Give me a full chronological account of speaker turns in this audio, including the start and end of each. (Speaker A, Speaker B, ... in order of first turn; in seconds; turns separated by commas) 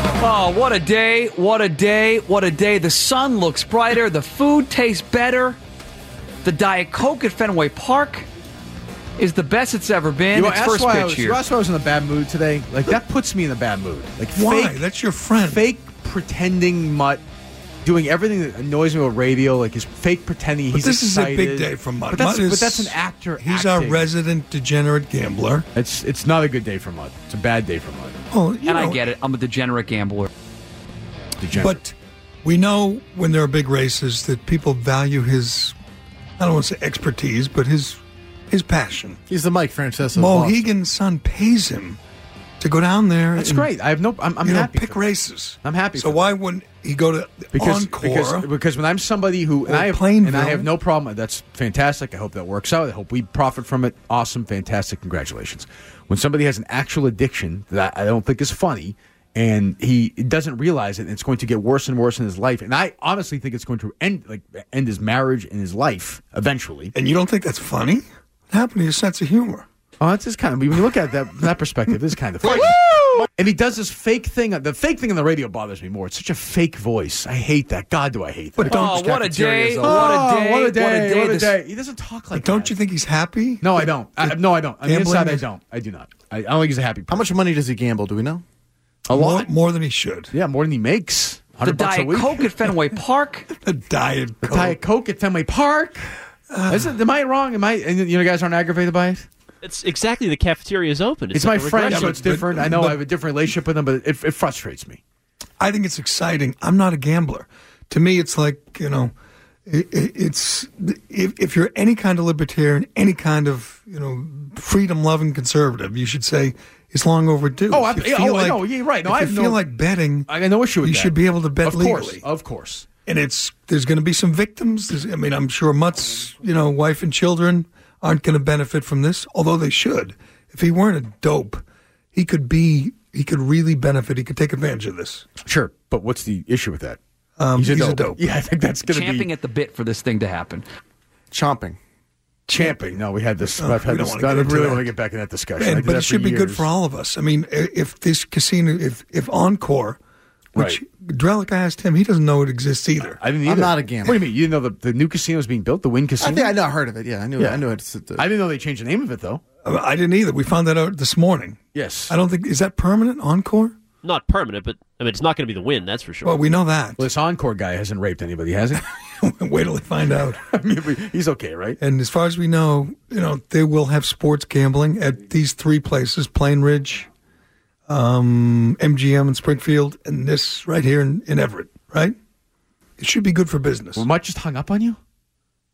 Speaker A: 0.2-5.6, Speaker A: 6.4-8.3, Speaker A: 9.2-11.4, Speaker B: 10.3-14.8, Speaker C: 14.3-15.6, Speaker B: 15.4-17.2, Speaker B: 17.8-24.1, Speaker C: 20.7-25.7, Speaker B: 25.7-28.2, Speaker C: 28.3-29.1, Speaker A: 28.6-30.3, Speaker B: 31.4-31.8, Speaker C: 31.5-35.8, Speaker C: 36.4-39.2, Speaker D: 39.3-40.6, Speaker C: 40.1-42.0, Speaker C: 42.6-43.7, Speaker B: 43.4-45.0, Speaker C: 44.4-48.5, Speaker B: 45.6-46.3, Speaker B: 47.5-66.9, Speaker C: 49.7-50.7, Speaker C: 66.9-69.7, Speaker B: 70.0-79.0, Speaker C: 72.4-72.7, Speaker D: 72.4-73.3, Speaker C: 78.6-79.5, Speaker A: 78.7-81.6, Speaker D: 78.8-80.2, Speaker B: 79.8-82.7, Speaker C: 82.3-85.5, Speaker B: 83.6-87.3, Speaker D: 87.1-88.4, Speaker B: 89.1-89.5, Speaker C: 89.1-90.3, Speaker B: 90.3-92.5, Speaker A: 91.6-93.5, Speaker C: 93.6-94.8, Speaker B: 94.4-96.1, Speaker C: 96.5-97.0, Speaker B: 96.7-99.2, Speaker E: 99.6-102.3, Speaker B: 101.3-105.0, Speaker C: 101.9-103.0, Speaker C: 105.6-109.1, Speaker C: 109.7-120.3, Speaker B: 117.7-119.6, Speaker B: 120.3-122.8, Speaker C: 120.8-122.2, Speaker C: 123.0-131.6, Speaker C: 132.1-135.2, Speaker B: 135.4-137.0, Speaker C: 137.4-138.2, Speaker B: 137.6-139.3, Speaker A: 138.9-140.6, Speaker D: 141.3-141.8, Speaker B: 142.5-146.7, Speaker C: 142.5-142.8, Speaker C: 143.6-144.9, Speaker C: 145.6-150.0, Speaker B: 150.6-150.8, Speaker C: 150.6-153.2, Speaker B: 153.0-156.5, Speaker D: 153.4-154.2, Speaker D: 156.2-158.2, Speaker B: 157.4-157.6, Speaker B: 158.2-159.4, Speaker C: 159.6-163.8, Speaker B: 161.7-162.1, Speaker E: 164.0-166.4, Speaker C: 166.2-167.0, Speaker B: 167.0-168.8, Speaker C: 169.2-170.4, Speaker B: 170.4-171.8, Speaker C: 171.8-177.1, Speaker C: 177.9-182.2, Speaker C: 183.0-184.1, Speaker B: 183.9-185.0